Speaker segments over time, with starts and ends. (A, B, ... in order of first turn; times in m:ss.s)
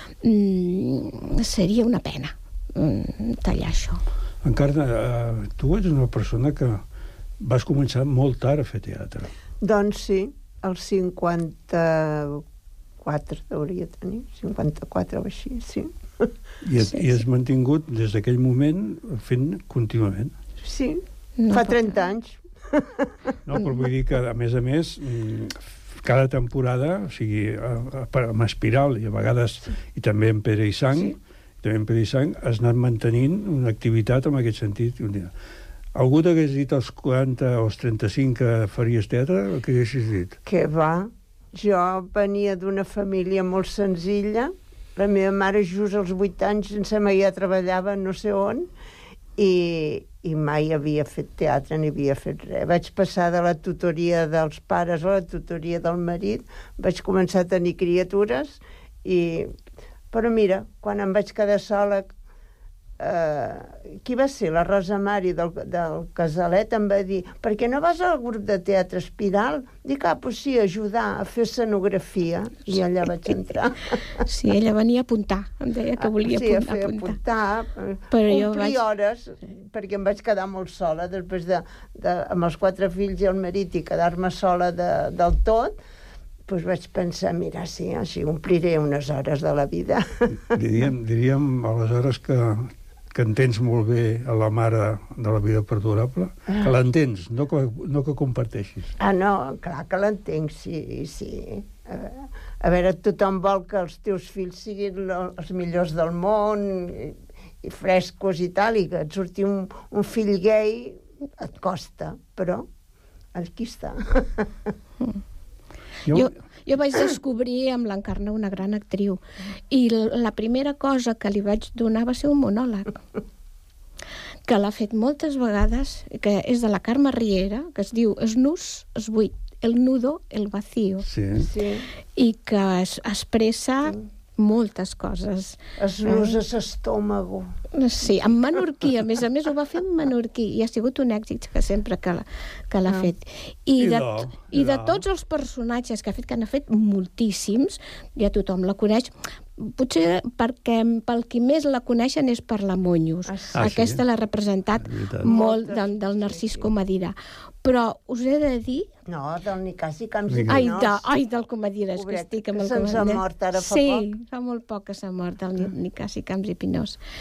0:00.2-0:04.0 A
0:04.4-0:06.8 B
0:07.4-0:09.3 B
0:09.6-0:12.4 C
0:13.0-0:16.3 C
0:16.6-0:20.4 B
0:20.6-0:23.1 C
0:21.4-0:22.0 A
0:23.4-0:35.3 B
0:35.9-0:40.4 B
0:40.4-0:48.7 C
0:49.4-0:59.5 C
1:00.1-1:02.1 C
1:03.0-1:14.2 C
1:14.2-1:17.2 A
1:16.0-1:25.7 C
1:18.1-1:18.8 A
1:26.5-1:30.4 C
1:30.5-1:38.9 B
1:39.0-1:52.7 C
1:53.3-1:54.5 C
1:56.1-2:03.0 A
2:04.5-2:11.1 A
2:11.0-2:11.5 B
2:11.4-2:11.8 C
2:12.2-2:16.4 A
2:15.8-2:17.5 C
2:17.7-2:38.9 A
2:23.8-2:25.0 B
2:33.3-2:33.6 C
2:33.5-2:34.0 B
2:34.8-2:35.3 B
2:35.2-2:36.7 C
2:39.1-2:41.1 C
2:40.3-2:40.6 B
2:40.5-2:47.0 A
2:42.0-2:44.1 C